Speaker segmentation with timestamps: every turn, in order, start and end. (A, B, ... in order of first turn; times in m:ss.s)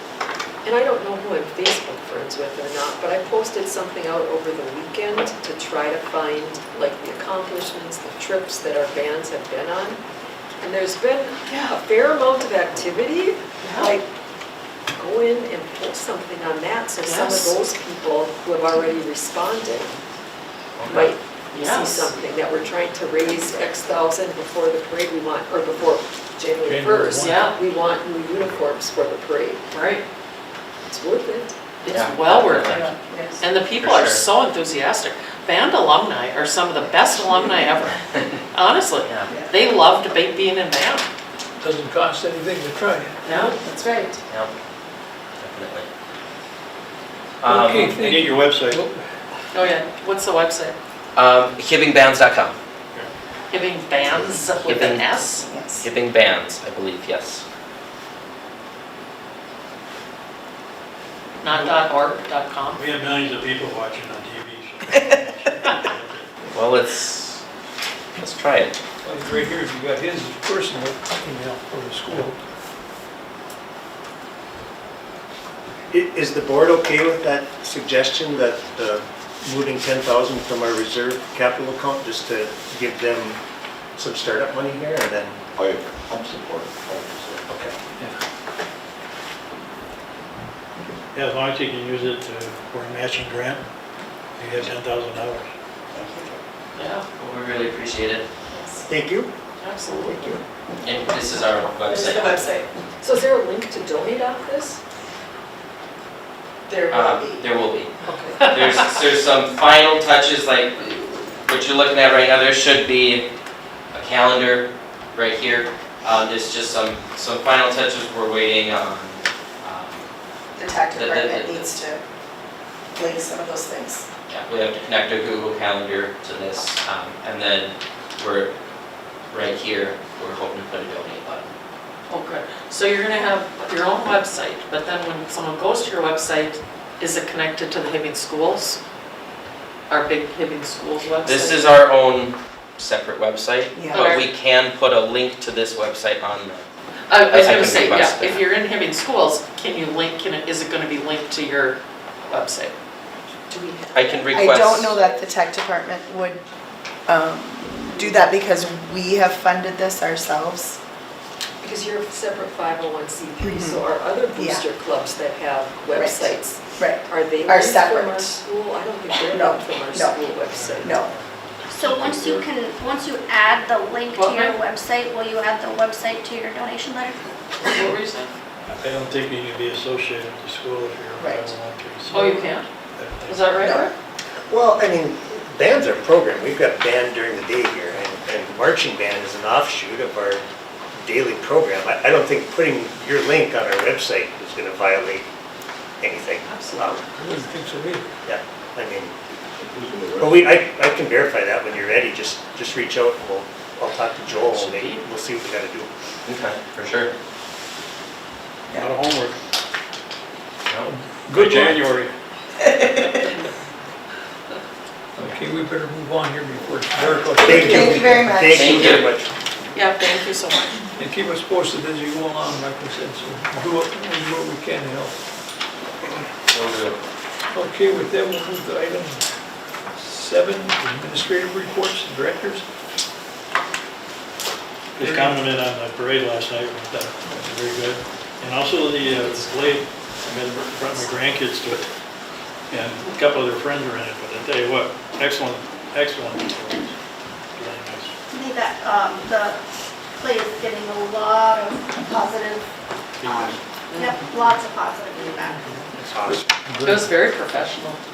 0:00.6-0:10.0 A
0:10.6-0:14.1 A
0:13.6-0:13.9 B
0:14.9-0:19.9 A
0:17.0-0:17.6 B
0:20.8-0:21.1 C
0:20.9-0:29.6 A
0:21.5-0:22.1 B
0:26.6-0:27.5 D
0:27.2-0:27.5 B
0:29.7-0:30.0 B
0:30.9-0:31.5 A
0:31.8-0:41.1 B
0:31.9-0:32.9 C
0:32.6-0:33.4 E
0:33.8-0:34.2 C
0:39.0-0:39.3 C
0:39.3-0:39.6 E
0:41.6-0:43.1 D
0:43.2-0:43.6 B
0:43.3-0:44.2 E
0:45.4-0:45.9 C
0:47.4-0:48.0 C
0:47.4-0:49.0 D
0:48.0-0:48.8 F
0:49.5-0:50.8 B
0:51.2-0:52.6 C
0:53.5-0:55.5 B
0:54.7-0:55.9 E
0:54.7-0:55.0 C
0:55.8-0:57.4 C
1:01.4-1:02.8 B
1:01.4-1:01.8 F
1:02.7-1:06.6 F
1:06.5-1:07.4 C
1:08.2-1:08.8 C
1:09.0-1:12.4 D
1:15.9-1:23.4 G
1:24.0-1:25.4 G
1:25.6-1:27.4 H
1:31.1-1:33.6 F
1:34.4-1:35.5 F
1:35.9-1:36.3 E
1:36.8-1:37.0 B
1:37.2-1:38.3 C
1:38.5-1:38.9 E
1:38.8-1:39.3 G
1:39.6-1:40.3 B
1:40.1-1:40.4 G
1:40.8-1:42.5 C
1:41.9-1:42.7 E
1:43.0-1:44.8 A
1:46.7-1:47.5 E
1:46.9-1:53.2 C
1:48.4-1:48.7 B
1:53.9-2:00.1 C
2:00.6-2:02.0 E
2:00.9-2:01.8 C
2:03.0-2:04.1 E
2:04.3-2:08.5 C
2:09.3-2:11.5 C
2:12.1-2:18.8 B
2:19.9-2:21.8 B
2:21.2-2:26.6 C
2:23.7-2:24.2 E
2:23.9-2:24.2 B
2:27.1-2:31.8 B
2:27.2-2:28.5 C
2:32.3-2:32.7 B
2:33.5-2:33.9 A
2:33.9-2:35.0 C
2:34.3-2:36.4 E
2:37.1-2:40.8 E
2:41.6-2:50.9 A
2:43.4-2:43.8 E
2:44.4-2:44.6 E
2:45.9-2:48.3 E
2:49.3-2:50.3 E
2:50.5-2:51.6 F
2:50.8-2:51.1 E
2:51.7-2:57.3 I
2:51.8-2:52.5 H
2:54.2-2:54.6 B
2:57.7-2:58.3 B
2:58.7-3:03.8 F
3:01.2-3:01.5 E
3:02.1-3:02.6 B
3:03.2-3:03.9 B
3:03.6-3:03.9 E
3:04.5-3:10.4 G
3:11.0-3:15.2 G
3:16.0-3:17.0 G
3:16.4-3:17.0 B
3:17.2-3:18.1 D
3:18.2-3:19.1 G
3:19.6-3:20.5 H
3:20.2-3:25.9 G
3:24.3-3:25.1 B
3:26.2-3:27.1 C
3:28.7-3:29.4 F
3:30.8-3:31.9 D
3:31.3-3:32.1 F
3:32.8-3:33.1 E
3:35.2-3:38.4 D
3:37.4-3:39.0 E
3:37.4-3:39.3 G
3:38.5-3:39.1 C
3:39.7-3:40.8 B
3:41.0-3:45.2 D
3:46.5-3:47.0 C
3:47.5-3:49.2 D
3:50.0-3:52.6 D
3:55.0-3:55.5 D
3:55.0-4:01.8 F
4:02.7-4:07.0 F
4:07.5-4:08.1 F
4:08.3-4:09.6 I
4:10.1-4:12.7 I
4:13.2-4:13.6 F
4:13.3-4:15.6 I
4:15.7-4:17.1 D
4:16.1-4:16.4 G
4:16.8-4:18.0 B